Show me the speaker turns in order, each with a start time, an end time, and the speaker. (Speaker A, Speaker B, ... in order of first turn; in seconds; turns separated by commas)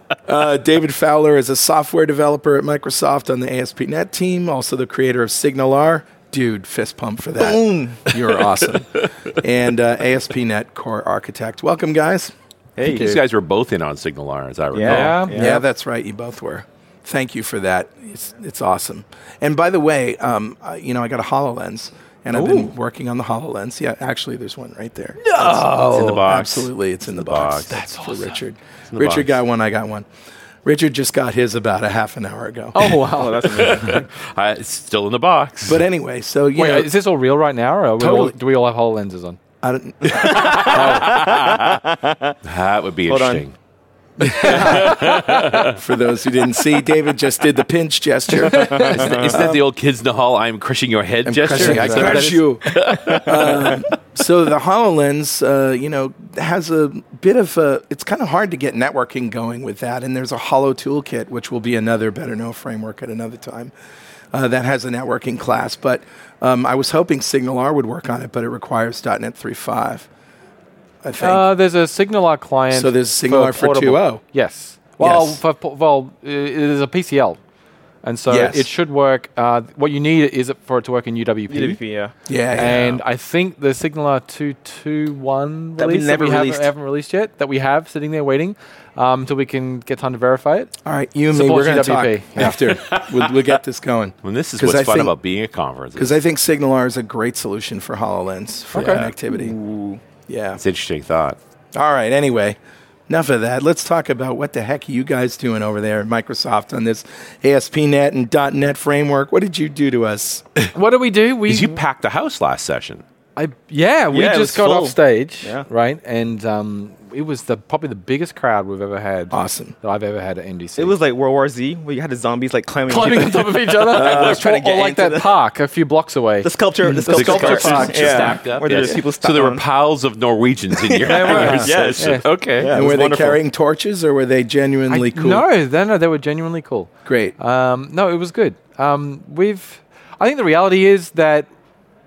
Speaker A: 0.2-12.9, Speaker B: 7.4-8.1, Speaker B: 12.8-13.2, Speaker C: 12.8-15.2, Speaker B: 14.7-15.6, Speaker D: 14.8-15.4, Speaker A: 15.3-30.1, Speaker D: 25.2-26.2, Speaker C: 25.8-27.9, Speaker D: 27.7-28.3, Speaker C: 28.9-29.3, Speaker A: 30.6-32.9, Speaker D: 32.7-33.8, Speaker B: 33.1-34.1, Speaker C: 33.5-35.8, Speaker A: 35.6-36.9, Speaker D: 36.5-39.4, Speaker A: 38.0-38.3, Speaker A: 39.6-41.3, Speaker C: 40.1-41.8, Speaker B: 40.1-42.3, Speaker C: 42.4-43.5, Speaker B: 43.1-43.4, Speaker A: 44.2-49.6, Speaker C: 44.2-45.8, Speaker C: 48.5-53.9, Speaker B: 48.7-49.4, Speaker A: 51.2-63.7, Speaker D: 51.5-52.4, Speaker A: 64.3-70.1, Speaker A: 71.0-71.4, Speaker D: 71.2-77.4, Speaker A: 72.7-74.2, Speaker A: 75.0-75.4, Speaker D: 78.0-81.8, Speaker A: 78.3-78.7, Speaker B: 81.5-82.1, Speaker A: 82.3-82.9, Speaker D: 82.5-90.7, Speaker C: 82.6-83.0, Speaker B: 85.8-86.7, Speaker A: 90.8-95.1, Speaker D: 91.3-92.6, Speaker C: 92.6-93.3, Speaker C: 94.2-96.2, Speaker A: 96.0-99.5, Speaker D: 98.7-99.0, Speaker C: 98.8-99.1, Speaker B: 99.3-100.0, Speaker A: 100.3-100.6, Speaker C: 100.6-101.4, Speaker A: 101.7-102.6, Speaker A: 103.1-110.5, Speaker D: 110.7-111.8, Speaker C: 111.5-113.0, Speaker D: 113.3-120.9, Speaker B: 114.1-115.6, Speaker A: 119.3-119.7, Speaker B: 120.8-125.4, Speaker D: 122.9-126.5, Speaker A: 123.9-124.4, Speaker B: 126.4-129.6, Speaker A: 126.8-127.9, Speaker D: 127.0-128.8, Speaker C: 127.1-132.8, Speaker B: 130.7-133.4, Speaker D: 131.1-132.3, Speaker A: 131.4-131.8, Speaker A: 132.7-135.4, Speaker D: 134.9-141.5, Speaker A: 137.1-137.3